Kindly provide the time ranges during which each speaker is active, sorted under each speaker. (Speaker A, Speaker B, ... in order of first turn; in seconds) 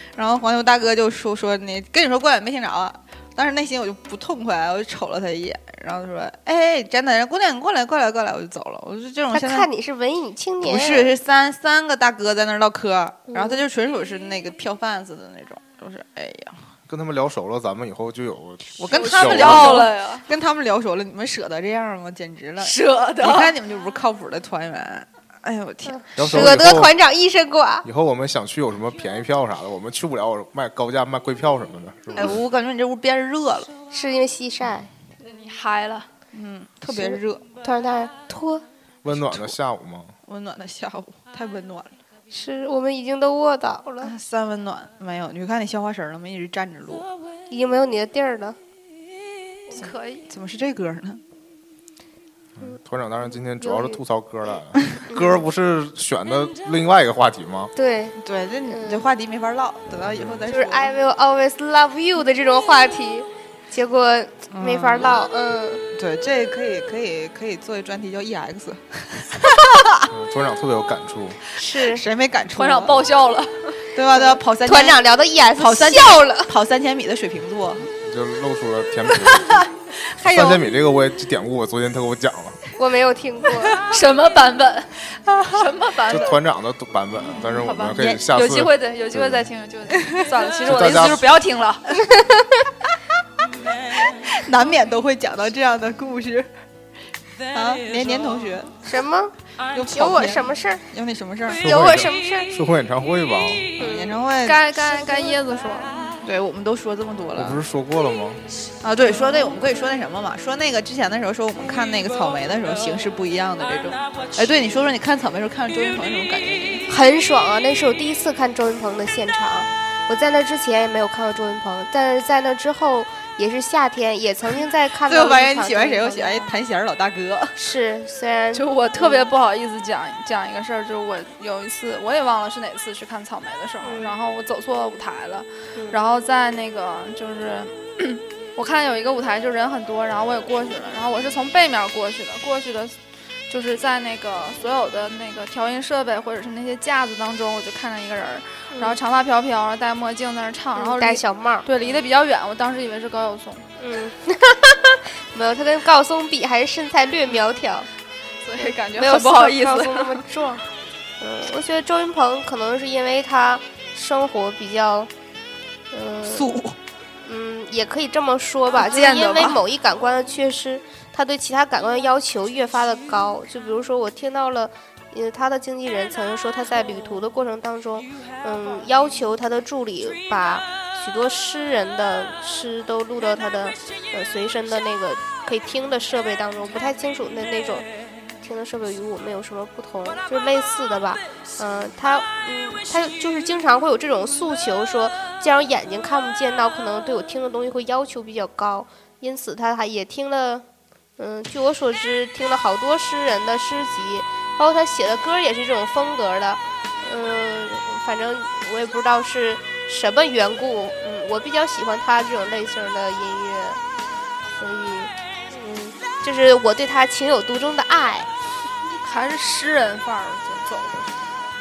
Speaker A: 0.1-9.7, 10.6-16.6, 18.8-26.5, 32.2-33.7, 36.3-37.5, 40.2-42.0, 44.0-47.1, 49.7-51.2, 58.2-60.9, 64.5-65.2, 66.0-70.1, 71.8-73.0, 74.0-75.0, 75.6-77.9, 79.1-80.7, 85.3-85.6, 94.1-96.5, 97.5-98.8, 99.7-101.6, 103.8-104.6, 106.2-107.6, 108.8-116.9, 125.1-127.5, 166.3-166.8, 168.8-169.6
Speaker B: 9.3-11.1, 13.3-13.6, 25.9-27.9, 33.9-34.9, 36.9-38.6, 42.3-44.1, 47.5-48.6, 53.6-54.0, 55.1-55.4, 57.8-58.2, 58.7-59.1, 60.5-65.8, 71.6-72.0, 74.1-76.5, 82.8-83.8, 92.1-92.5, 98.8-100.8, 101.6-102.5, 103.8-104.2, 116.9-126.5, 127.6-129.3, 133.8-134.1, 148.7-149.0, 150.8-151.7, 153.8-157.9, 158.6-160.6, 161.2-165.1, 165.9-166.5, 167.2-187.9, 188.4-200.7, 201.2-213.8, 214.6-218.3
Speaker C: 16.9-19.9, 26.2-26.9, 27.8-32.4, 39.0-40.1, 52.6-57.7, 60.1-60.4, 70.1-71.4, 78.0-79.7, 80.2-82.6, 86.1-89.5, 90.7-91.2, 101.6-103.7, 107.3-108.4
Speaker D: 18.9-20.3, 22.6-23.5, 35.2-36.1, 49.7-50.3, 72.5-73.8, 83.9-85.0, 85.5-86.4, 87.6-91.8, 104.5-106.2, 128.5-143.0, 143.5-153.7, 158.4-160.2, 219.0-221.4